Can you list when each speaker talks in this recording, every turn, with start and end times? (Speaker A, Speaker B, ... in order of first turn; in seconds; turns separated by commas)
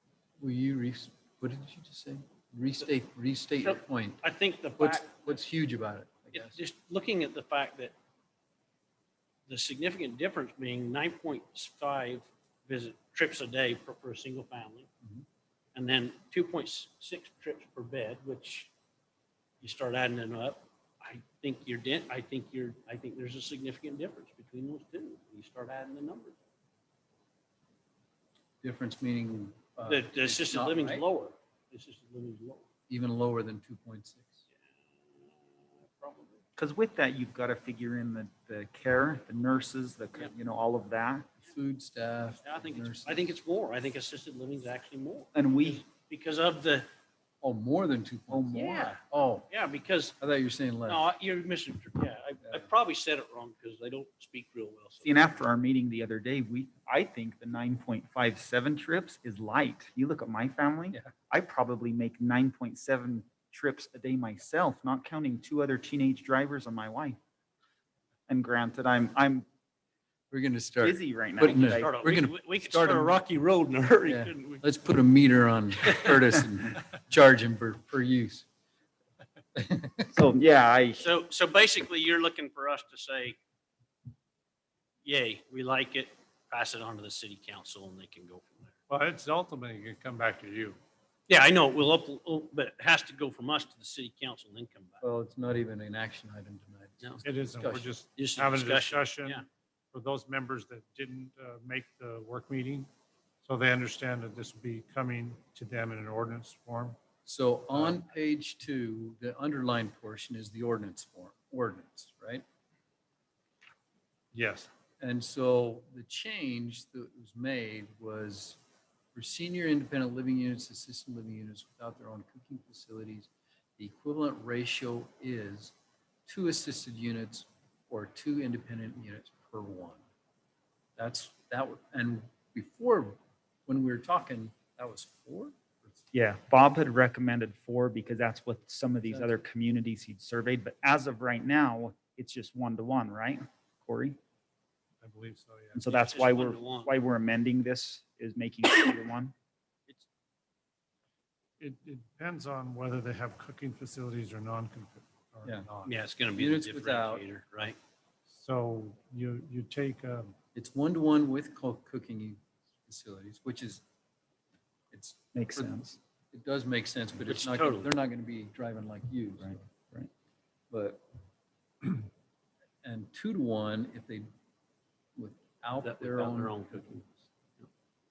Speaker A: 0.4-4.2, Speaker B: 3.6-5.4, Speaker A: 4.8-6.6, Speaker B: 6.3-7.9, Speaker B: 9.5-14.9, Speaker B: 15.7-18.7, Speaker B: 19.6-26.4, Speaker A: 28.6-31.1, Speaker B: 29.8-32.7, Speaker A: 32.9-34.4, Speaker B: 34.8-36.4, Speaker C: 36.6-41.3, Speaker A: 41.4-43.4, Speaker B: 42.4-46.9, Speaker C: 45.3-45.8, Speaker A: 47.4-49.5, Speaker C: 48.3-49.0, Speaker B: 48.5-50.1, Speaker A: 50.2-51.0, Speaker B: 50.9-55.2, Speaker C: 55.0-67.2, Speaker C: 68.3-69.5, Speaker A: 70.3-73.2, Speaker C: 70.8-72.2, Speaker B: 71.7-74.6, Speaker A: 74.0-78.5, Speaker B: 75.9-76.1, Speaker A: 79.5-80.1, Speaker C: 80.1-81.1, Speaker B: 81.0-83.4, Speaker B: 85.0-88.8, Speaker D: 88.9-90.8, Speaker B: 91.3-95.0, Speaker A: 95.0-97.9, Speaker D: 97.2-102.9, Speaker B: 98.2-99.5, Speaker D: 103.4-107.0, Speaker A: 107.2-112.4, Speaker D: 107.7-108.0, Speaker D: 114.3-114.7, Speaker A: 115.0-118.6, Speaker A: 119.1-125.7, Speaker A: 126.3-130.0, Speaker A: 131.0-136.0, Speaker C: 136.1-144.2, Speaker D: 145.0-145.8, Speaker C: 145.8-149.3, Speaker B: 145.9-146.9, Speaker D: 151.6-155.9, Speaker A: 155.4-155.7, Speaker B: 155.8-157.8, Speaker A: 156.3-157.2, Speaker D: 158.3-160.4, Speaker A: 160.6-163.8, Speaker A: 164.9-165.8, Speaker C: 165.3-166.0, Speaker A: 166.3-169.6, Speaker B: 167.2-167.9, Speaker C: 169.4-170.1, Speaker A: 170.7-171.0, Speaker A: 172.8-174.3, Speaker A: 175.2-176.6, Speaker B: 175.8-177.7